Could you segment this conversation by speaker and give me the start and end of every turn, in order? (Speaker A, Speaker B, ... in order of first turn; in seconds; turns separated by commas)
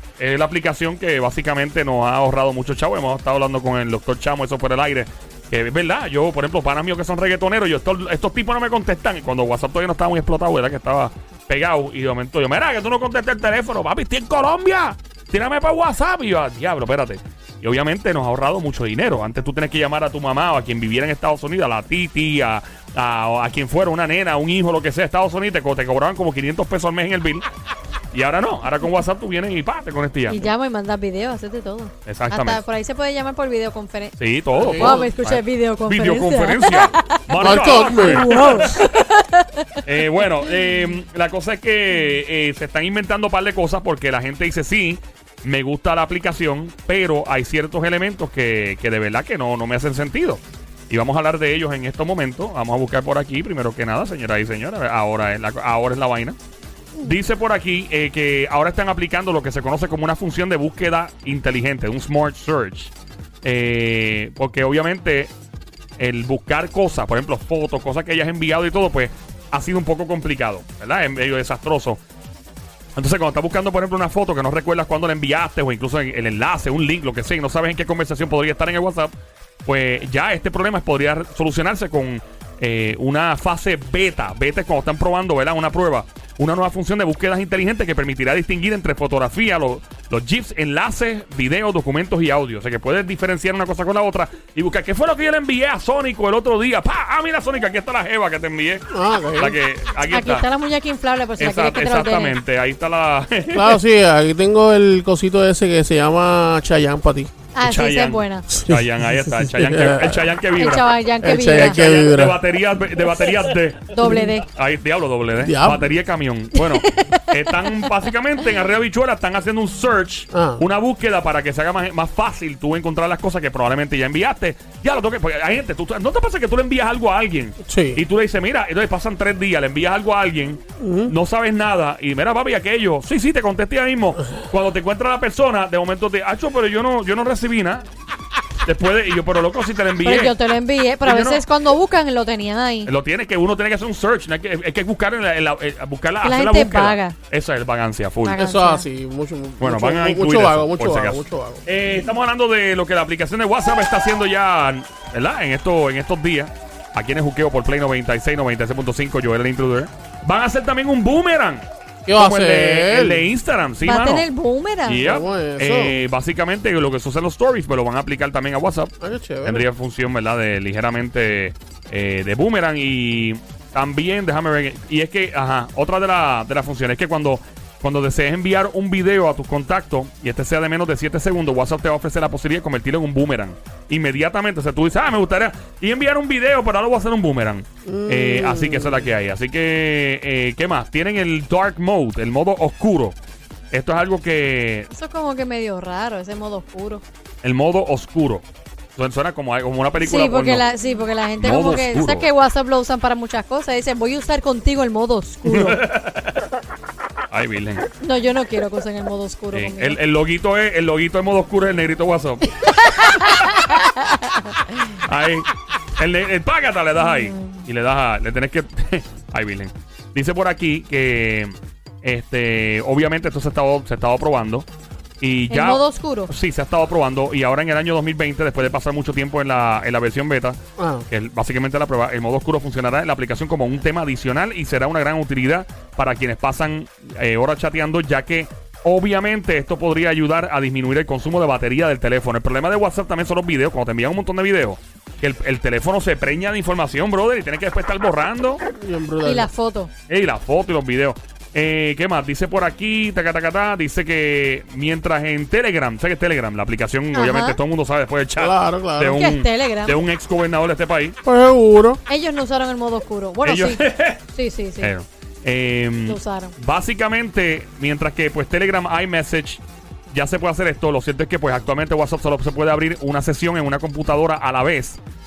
Speaker A: 0.2-27.4, Speaker A: 28.1-30.5, Speaker B: 30.3-39.6, Speaker A: 32.0-32.6, Speaker A: 34.2-38.9, Speaker C: 34.6-35.0, Speaker C: 37.4-38.7, Speaker A: 39.8-56.4, Speaker A: 57.0-65.3, Speaker A: 66.0-72.0, Speaker A: 73.0-79.1, Speaker A: 79.6-98.8, Speaker C: 98.9-99.6, Speaker A: 99.3-100.4, Speaker B: 100.1-102.4, Speaker A: 101.4-103.8, Speaker C: 103.5-107.3, Speaker B: 107.5-108.5, Speaker A: 107.6-110.8, Speaker C: 108.6-110.3, Speaker B: 110.5-112.1, Speaker C: 111.2-112.4, Speaker A: 111.5-113.9, Speaker B: 113.9-114.5, Speaker C: 114.0-114.3, Speaker A: 114.5-137.8, Speaker C: 115.4-115.9, Speaker B: 116.5-117.9, Speaker C: 120.3-120.6, Speaker C: 127.7-128.0, Speaker C: 130.8-131.1, Speaker A: 138.6-140.3, Speaker B: 140.0-142.9, Speaker A: 141.0-141.4, Speaker A: 142.8-148.4, Speaker B: 146.2-147.2, Speaker B: 148.2-148.8, Speaker C: 148.4-151.6, Speaker A: 149.6-164.3, Speaker C: 162.0-163.3, Speaker B: 163.8-165.2, Speaker A: 164.9-168.9, Speaker C: 165.0-166.0, Speaker C: 169.0-169.7, Speaker A: 169.4-193.2, Speaker C: 187.8-189.1, Speaker A: 193.7-194.9, Speaker B: 194.9-197.0, Speaker A: 197.4-198.4, Speaker A: 198.9-200.6, Speaker B: 200.0-205.8, Speaker A: 201.4-202.3, Speaker A: 205.4-206.4, Speaker A: 207.3-207.8, Speaker B: 208.0-210.0, Speaker A: 209.5-213.3, Speaker B: 213.0-214.5, Speaker A: 214.9-224.7, Speaker B: 217.0-217.6, Speaker A: 225.2-248.6, Speaker B: 225.5-226.3, Speaker C: 230.8-231.1, Speaker C: 248.7-249.5, Speaker B: 249.2-249.9, Speaker A: 250.1-261.2, Speaker B: 257.1-257.6, Speaker C: 258.4-259.2, Speaker B: 259.1-260.0, Speaker C: 261.2-262.0, Speaker B: 262.1-264.9, Speaker A: 263.4-264.2, Speaker A: 264.8-275.0, Speaker B: 266.1-266.5